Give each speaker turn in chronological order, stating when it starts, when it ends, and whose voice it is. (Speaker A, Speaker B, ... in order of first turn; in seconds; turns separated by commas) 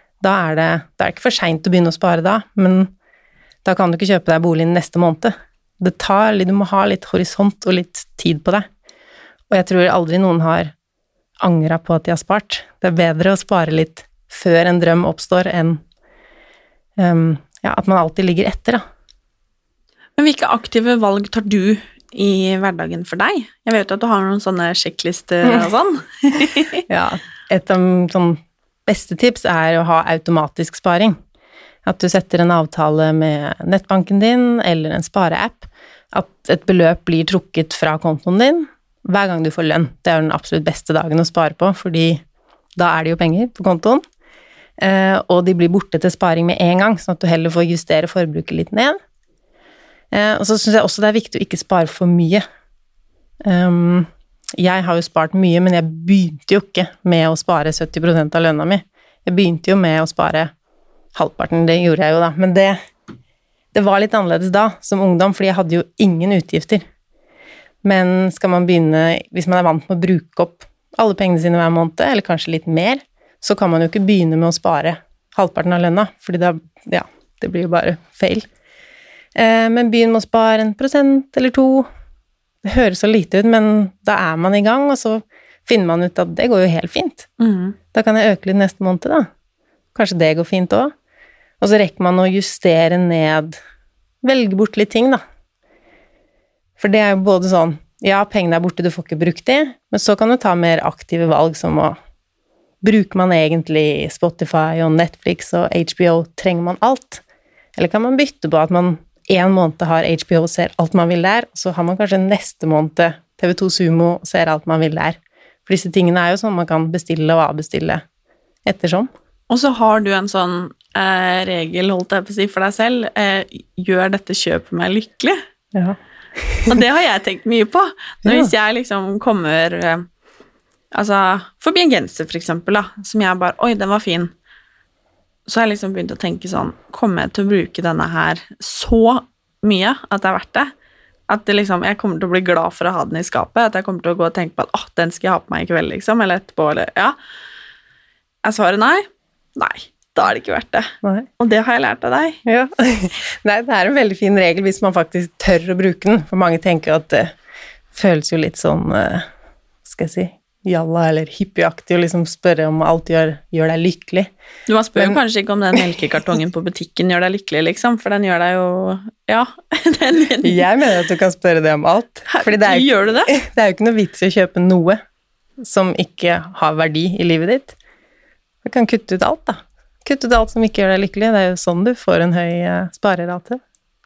Speaker A: 0.2-2.9, Speaker A: 3.6-8.7, Speaker A: 9.5-10.7, Speaker A: 11.4-15.8, Speaker A: 17.0-18.8, Speaker B: 20.2-26.8, Speaker A: 26.9-31.2, Speaker A: 31.8-42.2, Speaker A: 42.8-44.0, Speaker A: 44.8-49.0, Speaker A: 50.1-52.4, Speaker A: 53.4-60.5, Speaker A: 61.1-62.8, Speaker A: 63.7-66.8, Speaker A: 67.8-78.5, Speaker A: 79.3-81.9, Speaker A: 82.6-87.3, Speaker B: 87.4-87.8, Speaker A: 87.9-89.3, Speaker A: 89.9-90.9, Speaker A: 91.6-93.5, Speaker A: 94.2-95.2, Speaker A: 96.8-102.0, Speaker A: 102.8-107.2, Speaker A: 107.8-118.0, Speaker A: 118.6-119.1, Speaker B: 119.5-125.4, Speaker A: 125.7-126.7, Speaker B: 126.7-130.1, Speaker A: 128.2-128.5, Speaker B: 130.9-134.3, Speaker B: 135.5-140.7, Speaker B: 141.3-147.2, Speaker B: 148.4-152.4, Speaker A: 151.0-151.3, Speaker A: 152.4-157.3, Speaker A: 157.9-159.2, Speaker A: 159.8-164.3, Speaker B: 164.7-170.6, Speaker A: 170.4-175.0, Speaker B: 172.3-173.3, Speaker A: 175.6-177.8, Speaker A: 178.6-183.6